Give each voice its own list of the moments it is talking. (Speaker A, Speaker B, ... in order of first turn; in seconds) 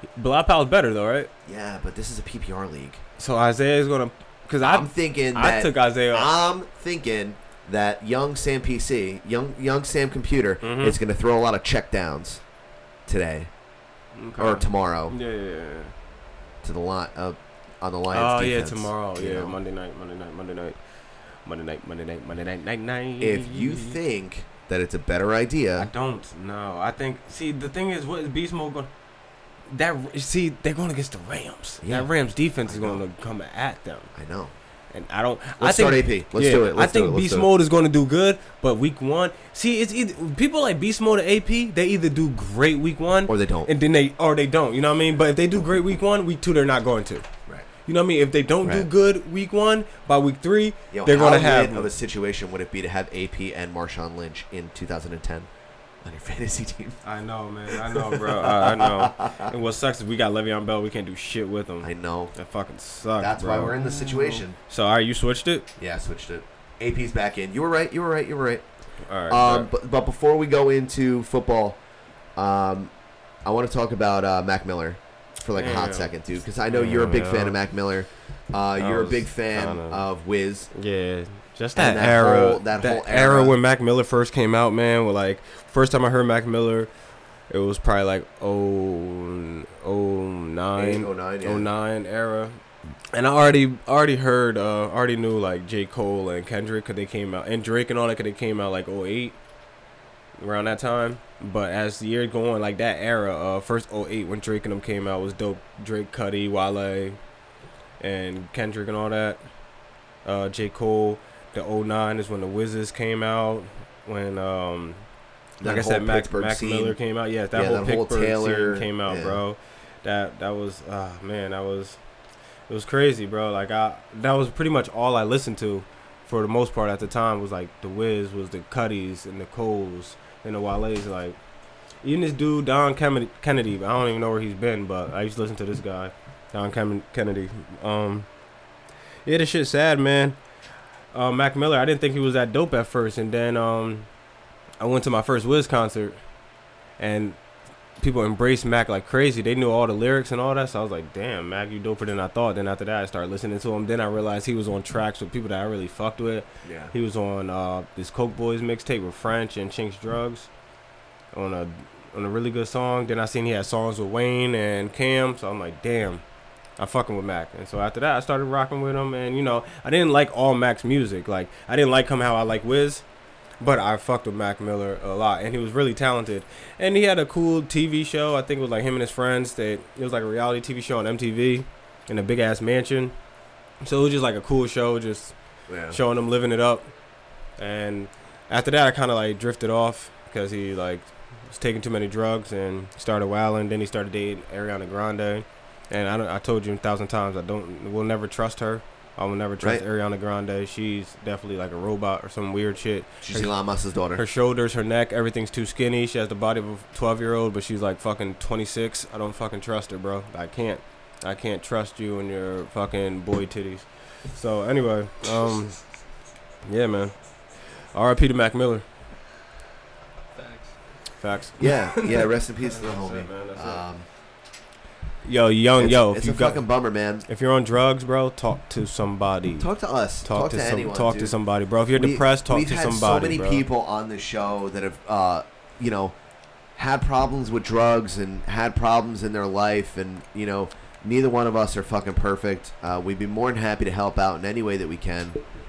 Speaker A: 0.2-1.3, 3.2-6.3, 10.6-11.0, 14.2-15.9, 18.1-20.8, 21.4-24.0, 25.8-28.9, 29.7-34.1, 34.9-47.2, 47.9-51.9, 57.0-63.8, 64.6-65.7, 69.1-69.7, 75.5-76.1, 76.7-77.6, 78.8-80.0, 80.7-86.9, 87.5-92.6, 93.1-99.4, 100.4-107.2, 108.0-109.4, 110.2-115.0, 115.6-122.0, 122.7-131.4, 132.0-138.3, 139.3-140.4, 141.1-144.1, 144.8-146.2, 147.0-147.4, 148.0-160.5, 161.3-166.2, 166.8-173.0, 173.6-183.2, 183.8-185.3, 185.9-186.9, 187.6-203.5, 204.2-215.8, 216.7-217.1, 217.9-218.8, 221.2-223.8, 225.2-226.6, 227.3-229.7, 230.2-233.7
Speaker B: 1.4-3.0, 4.6-12.4, 13.1-13.5, 14.4-15.2, 16.6-19.6, 23.2-25.9, 31.8-32.1, 32.6-33.0, 34.1-34.5, 35.6-37.5, 43.3-43.7, 48.6-48.9, 50.9-55.5, 56.0-57.0, 57.7-59.5, 61.8-62.3, 63.2-64.6, 65.8-68.7, 69.3-71.8, 72.4-72.9, 73.5-80.7, 81.8-83.6, 90.8-91.7, 115.6-117.0, 117.5-119.4, 156.6-156.9, 185.7-186.0, 203.2-204.2, 221.6-224.1, 225.8-227.3, 229.6-231.4, 231.9-236.2, 236.8-245.4